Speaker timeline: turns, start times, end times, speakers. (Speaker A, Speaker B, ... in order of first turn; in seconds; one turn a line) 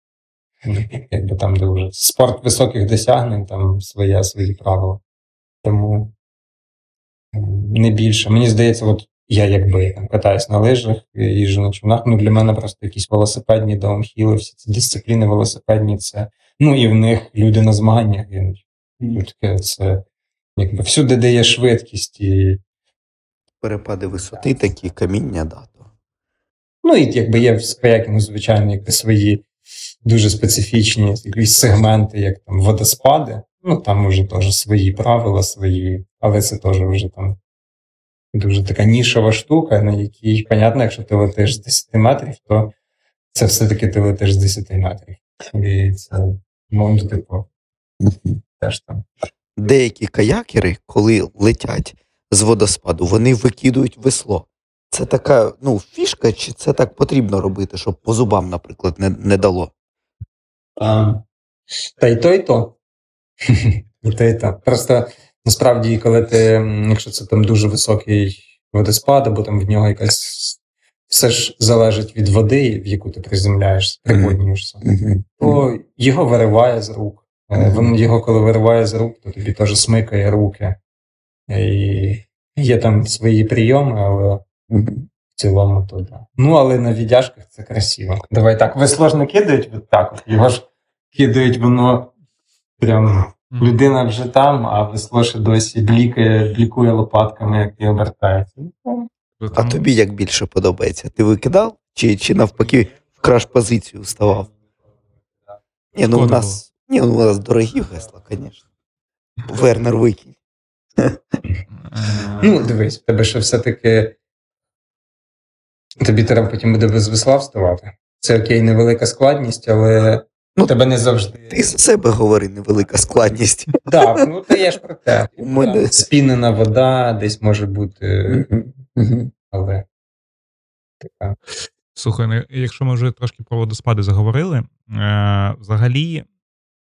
Speaker A: 0.6-5.0
Speaker A: 5.6-6.1
Speaker A: 7.3-20.0
Speaker A: 20.6-22.6
Speaker B: 23.6-25.9
Speaker A: 26.8-29.4
Speaker A: 30.0-37.4
Speaker A: 38.3-42.7
Speaker A: 43.3-47.5
Speaker B: 48.0-48.3
Speaker A: 48.6-49.1
Speaker B: 49.6-59.7
Speaker A: 60.8-61.2
Speaker A: 61.9-62.8
Speaker A: 63.5-74.8
Speaker B: 74.1-75.6
Speaker A: 75.4-80.8
Speaker B: 77.6-77.9
Speaker A: 81.5-84.4
Speaker B: 84.7-85.0
Speaker A: 85.3-92.1
Speaker A: 92.8-99.1
Speaker C: 99.4-99.8
Speaker B: 99.5-104.5
Speaker B: 105.9-108.6
Speaker C: 106.1-106.6
Speaker B: 109.5-110.3
Speaker C: 111.9-112.4
Speaker A: 112.4-114.1
Speaker A: 116.0-121.7
Speaker B: 121.5-124.2
Speaker A: 123.8-128.6
Speaker B: 125.4-126.0
Speaker B: 128.3-129.3
Speaker A: 129.5-129.8
Speaker A: 131.0-131.3
Speaker C: 131.9-136.2